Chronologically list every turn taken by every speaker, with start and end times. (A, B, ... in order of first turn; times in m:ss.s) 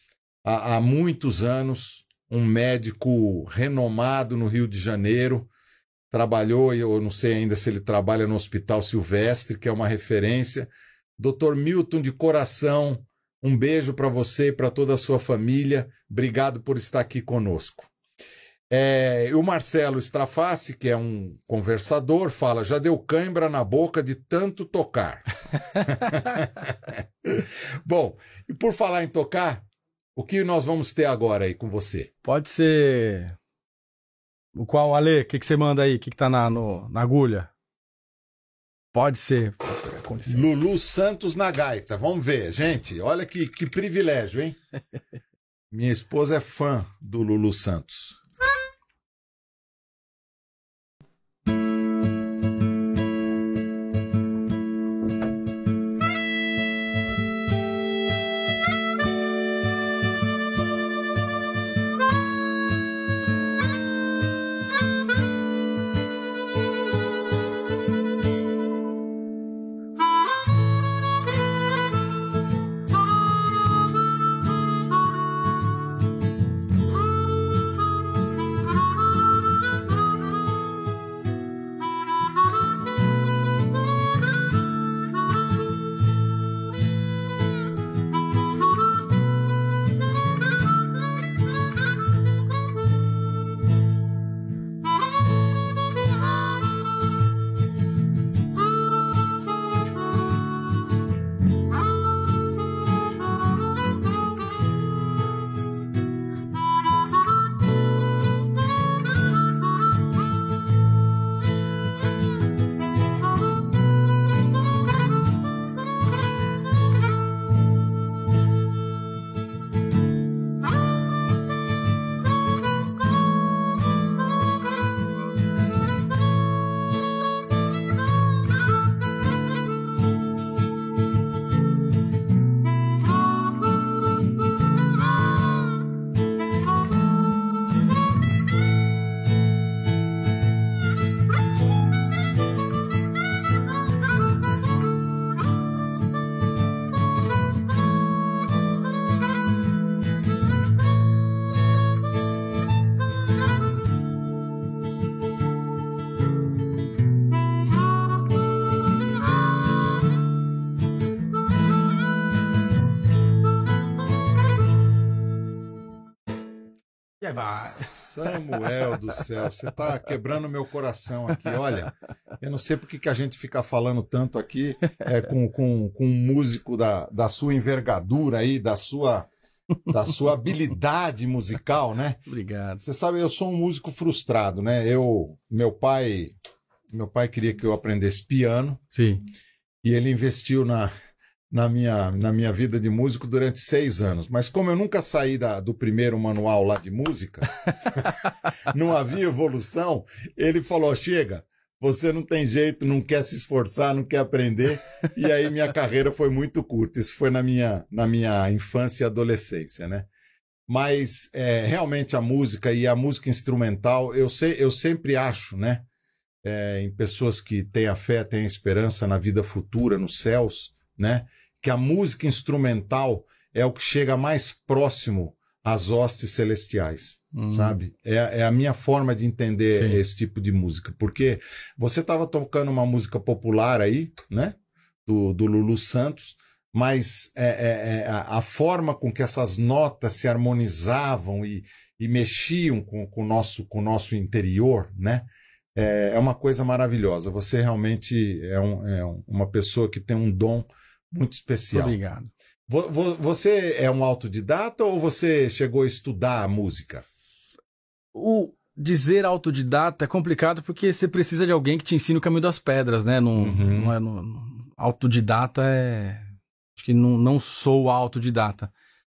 0:00.4-0:05.5 A
0:06.1-0:17.9 A
0:18.7-0:25.3 A
0:25.8-0:29.6 A
0:30.2-0:32.1 A
0:32.2-0:33.4 B
0:34.6-0:37.5 B
0:38.9-0:40.5 B
0:40.2-0:44.6 A
0:45.7-0:48.2 A
2:47.2-2:47.9 B
2:47.5-2:59.3 A
2:59.9-3:02.2 A
3:02.3-3:02.8 B
3:02.8-3:06.4 A
3:06.9-3:08.8 A
3:08.9-3:09.2 B
3:09.8-3:10.9 A
3:11.5-3:18.1 A
3:18.7-3:30.1 A
3:30.7-3:35.9 A
3:36.4-4:12.0 A
3:47.3-3:47.8 B
3:49.7-3:50.0 B
4:11.7-4:12.3 B
4:12.7-4:17.0 A
4:18.1-4:26.2 B
4:23.4-4:23.9 A
4:26.8-4:28.7 B